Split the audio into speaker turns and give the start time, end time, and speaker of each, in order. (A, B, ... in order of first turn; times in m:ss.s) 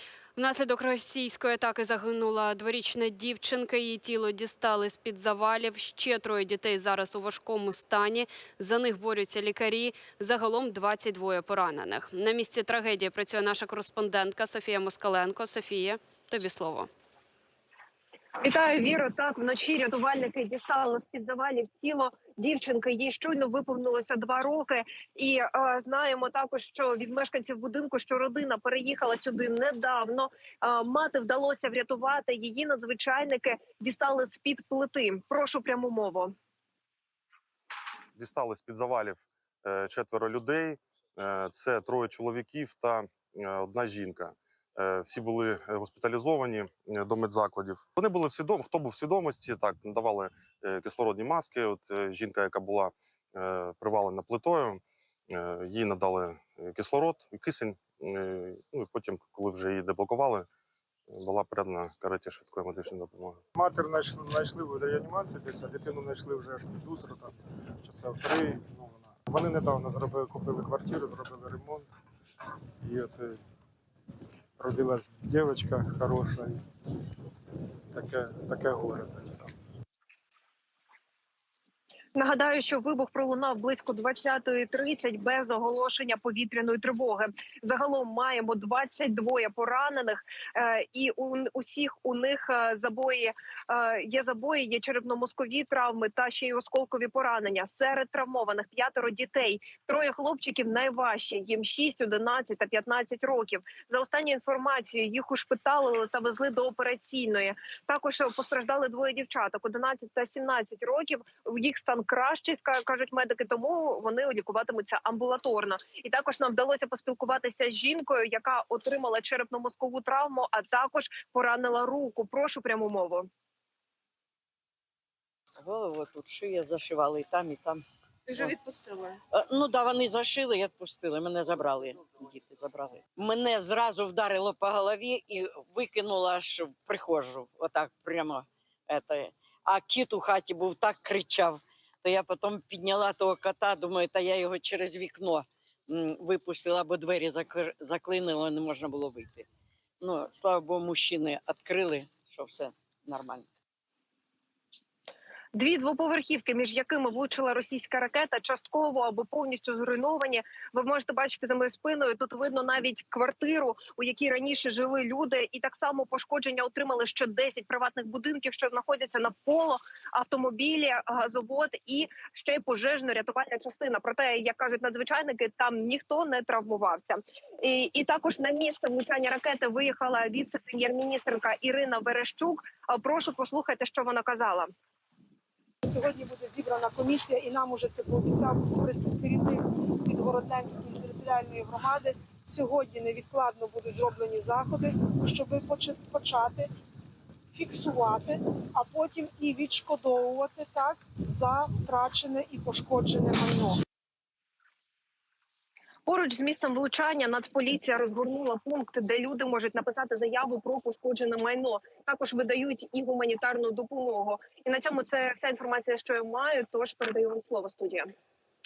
0:00.3-0:16.9 A
0:18.4-0:36.3 B
0:38.2-1:00.5 C
1:01.1-1:03.4 C
1:03.5-1:11.9 D
1:12.8-1:13.4 D
1:14.6-1:16.6 D
1:17.9-1:19.5 D
1:22.1-2:03.3 B
2:05.6-2:07.8 E
2:08.3-2:09.2 B
2:09.3-2:29.5 E
2:30.0-2:33.5 E
2:35.5-3:04.7 B
3:05.8-3:16.7 F
3:17.5-3:23.8 F
3:26.0-3:38.1 B